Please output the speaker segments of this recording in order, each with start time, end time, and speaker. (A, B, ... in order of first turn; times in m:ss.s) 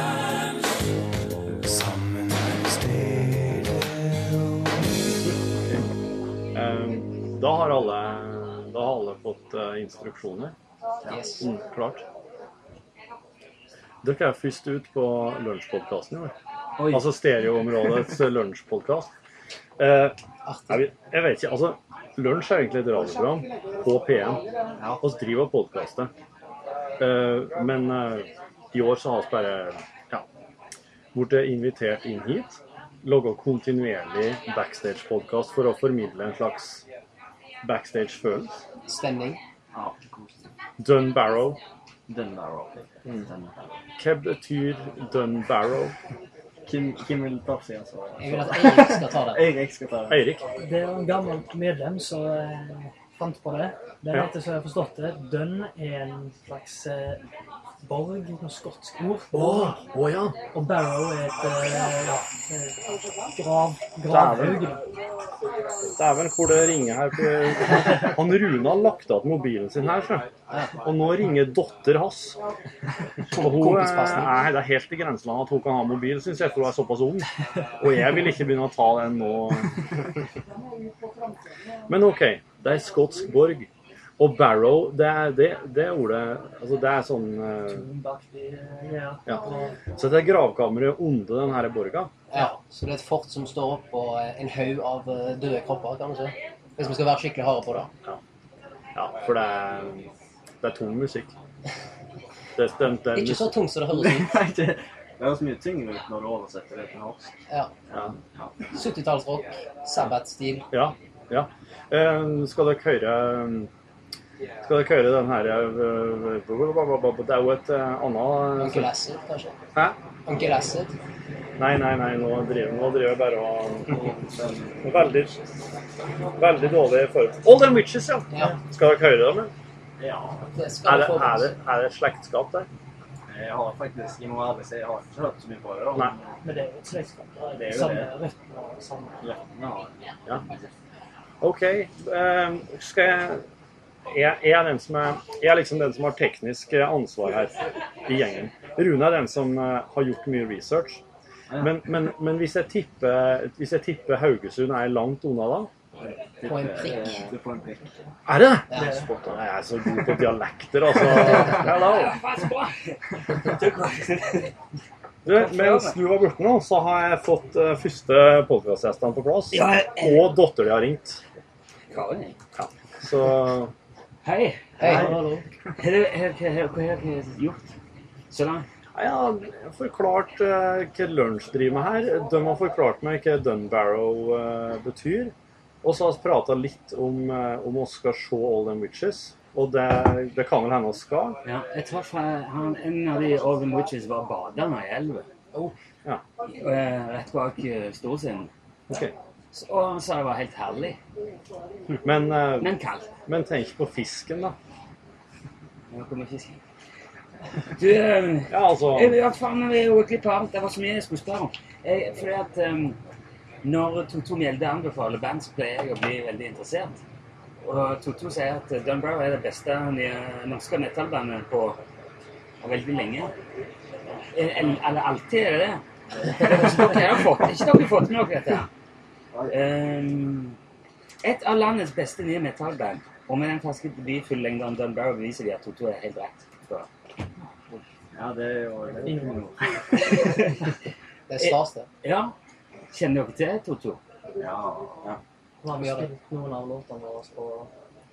0:06.5-0:10.6 A
0:11.0-0:11.3 B
0:11.1-0:11.4 C
0:11.4-0:12.0 A
0:14.0-0:16.3 A
0:16.8-0:17.1 B
0:16.9-0:19.1 A
0:19.8-0:20.2 A
0:20.5-0:20.8 C
0:20.7-0:24.4 A
0:25.0-0:26.1 A
0:27.0-0:30.2 A
0:31.1-0:36.8 A
0:37.6-0:38.6 A
0:38.9-0:39.4 C
0:39.7-0:40.5 B
0:40.8-0:41.6 A
0:42.1-0:43.7 B
0:44.0-0:46.0 A
0:46.7-0:50.3 B
0:48.2-0:49.5 C
0:50.1-0:50.4 A
0:50.6-0:57.2 D
0:57.8-0:59.8 D
0:59.3-1:00.4 A
1:00.5-1:02.8 D
1:03.4-1:04.8 D
1:04.1-1:04.8 A
1:06.0-1:10.3 A
1:10.8-1:12.4 A
1:13.3-1:14.5 C
1:13.3-1:17.3 A
1:17.8-1:19.8 A
1:21.9-1:23.7 A
1:24.2-1:27.9 A
1:27.7-1:29.8 D
1:29.3-1:32.1 A
1:32.3-1:37.9 C
1:39.0-1:40.1 A
1:40.6-1:41.3 A
1:42.6-1:43.6 A
1:43.1-1:44.4 C
1:43.9-1:47.3 B
1:47.9-1:48.5 B
1:48.7-1:50.7 C
1:50.7-1:53.7 A
1:54.6-1:58.9 A
1:58.6-1:59.6 C
2:00.3-2:00.9 C
2:01.6-2:04.0 A
2:03.9-2:04.8 B
2:04.8-2:05.4 A
2:06.4-2:09.5 A
2:08.3-2:08.6 C
2:10.0-2:10.5 B
2:10.6-2:11.5 C
2:10.8-2:12.7 A
2:13.3-2:16.4 B
2:16.4-2:19.2 D
2:17.5-2:18.1 B
2:19.2-2:19.8 B
2:21.4-2:23.4 A
2:24.1-2:31.0 A
2:31.5-2:31.8 B
2:31.6-2:35.7 A
2:36.0-2:38.0 B
2:36.5-2:37.3 C
2:38.3-2:42.2 A
2:38.7-2:39.1 C
2:38.7-2:39.1 D
2:41.5-2:44.5 E
2:45.2-2:51.2 A
2:45.3-2:46.0 E
2:49.5-2:50.4 E
2:51.9-2:52.4 E
2:52.6-2:53.7 A
2:54.2-2:55.1 E
2:54.8-2:55.2 C
2:54.8-2:55.4 D
2:55.8-2:57.7 E
2:58.3-2:58.7 E
2:59.0-3:11.4 A
3:11.4-3:15.3 E
3:16.5-3:18.5 E
3:18.9-3:19.1 A
3:19.5-3:21.0 E
3:22.0-3:22.7 A
3:22.6-3:23.1 E
3:23.3-3:24.6 A
3:25.9-3:26.6 E
3:27.8-3:33.0 E
3:28.5-3:29.2 A
3:33.6-3:37.0 E
3:37.6-3:41.8 E
3:42.6-3:43.3 E
3:44.3-3:48.7 E
3:49.5-3:50.6 E
3:51.2-3:56.9 E
3:58.1-3:59.6 B
3:59.0-3:59.5 D
3:59.9-4:00.6 E
4:01.3-4:01.9 C
4:01.4-4:02.3 E
4:02.9-4:04.0 E
4:04.4-4:05.1 B
4:05.6-4:07.7 D
4:05.7-4:06.1 C